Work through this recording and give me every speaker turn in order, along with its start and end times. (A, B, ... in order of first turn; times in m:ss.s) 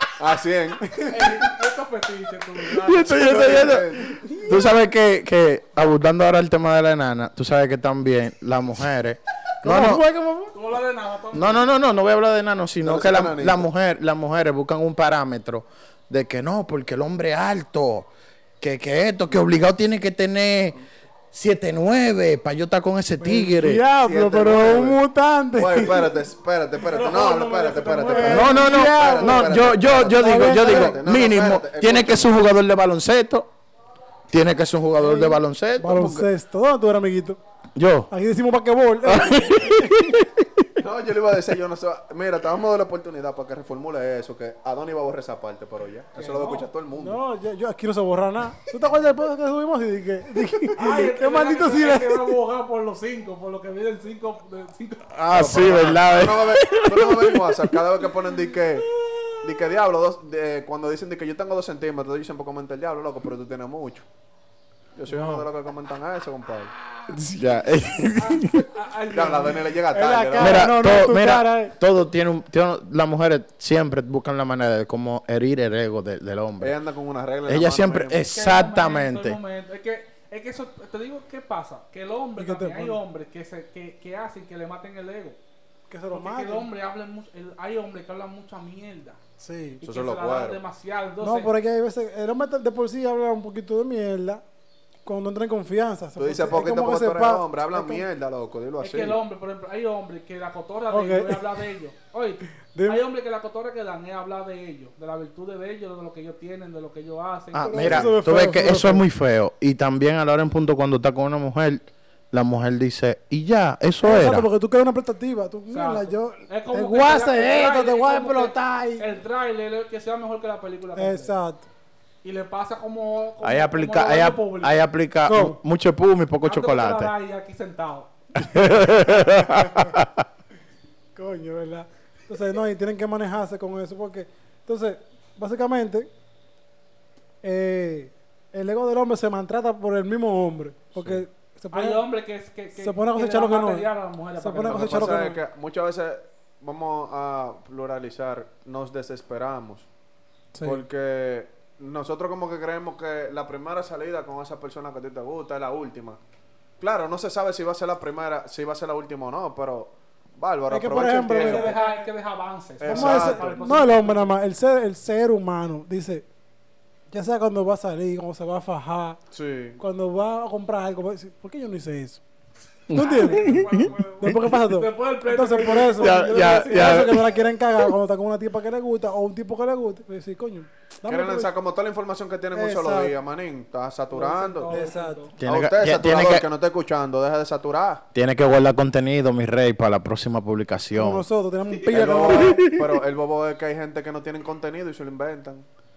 0:00.2-0:01.3 A
0:00.8-0:01.2 B
0:01.0-0:03.7 C
0:02.8-0:10.0 D
0:03.0-0:04.4 A
0:04.1-0:04.4 B
0:09.6-0:10.5 B
0:10.5-0:11.7 C
0:11.3-0:18.1 D
0:12.8-0:13.7 A
0:18.6-0:20.8 D
0:21.3-0:23.8 D
0:23.2-0:26.2 B
0:24.0-0:25.0 A
0:25.5-0:32.3 A
0:26.9-0:28.6 C
0:26.9-0:31.0 B
0:28.2-0:33.5 D
0:34.3-0:36.3 D
0:35.0-0:37.4 B
0:37.8-0:38.1 D
0:38.1-0:39.9 B
0:39.0-0:40.6 D
0:40.8-0:47.2 A
0:46.1-0:46.7 C
0:47.0-0:52.3 B
0:50.8-0:55.1 C
0:55.1-0:57.8 D
0:55.3-0:58.9 A
0:59.4-1:04.0 A
1:05.0-1:06.7 A
1:05.1-1:05.5 B
1:07.1-1:08.6 D
1:08.1-1:09.7 C
1:09.1-1:10.7 A
1:09.9-1:11.7 B
1:10.4-1:16.8 D
1:16.6-1:18.2 A
1:17.5-1:19.4 D
1:18.3-1:25.4 C
1:22.4-1:23.0 B
1:25.9-1:26.7 B
1:26.1-1:29.2 C
1:29.4-1:29.8 B
1:29.8-1:31.5 C
1:29.8-1:30.6 A
1:31.2-1:34.4 B
1:35.0-1:38.0 B
1:36.2-1:39.2 A
1:38.8-1:48.1 C
1:40.9-1:41.4 B
1:42.7-1:43.0 B
1:47.5-1:54.5 D
1:47.6-1:49.0 B
1:54.0-1:59.0 B
1:55.7-2:01.3 C
2:01.0-2:01.6 B
2:02.2-2:04.8 C
2:03.4-2:07.1 D
2:05.2-2:05.6 B
2:06.4-2:08.1 C
2:08.4-2:10.2 D
2:09.2-2:09.9 B
2:11.1-2:16.1 B
2:17.4-2:22.0 B
2:21.7-2:25.2 C
2:22.8-2:23.9 B
2:24.4-2:25.4 B
2:24.6-2:29.9 A
2:30.5-2:30.8 B
2:30.6-2:36.2 A
2:36.8-2:41.8 A
2:40.7-2:42.1 B
2:41.3-2:44.3 C
2:42.8-2:43.9 A
2:42.8-2:46.2 B
2:47.1-2:49.2 B
2:49.3-2:49.8 A
2:49.8-2:52.2 B
2:52.9-2:54.4 D
2:52.9-2:53.6 B
2:52.9-2:57.2 C
2:54.2-3:01.5 B
2:56.0-2:57.3 D
3:01.0-3:04.8 A
3:02.5-3:03.1 B
3:04.1-3:05.3 C
3:04.7-3:05.3 B
3:05.4-3:06.4 D
3:05.4-3:08.0 A
3:08.1-3:11.2 D
3:10.9-3:12.6 B
3:11.9-3:15.6 A
3:12.2-3:13.0 D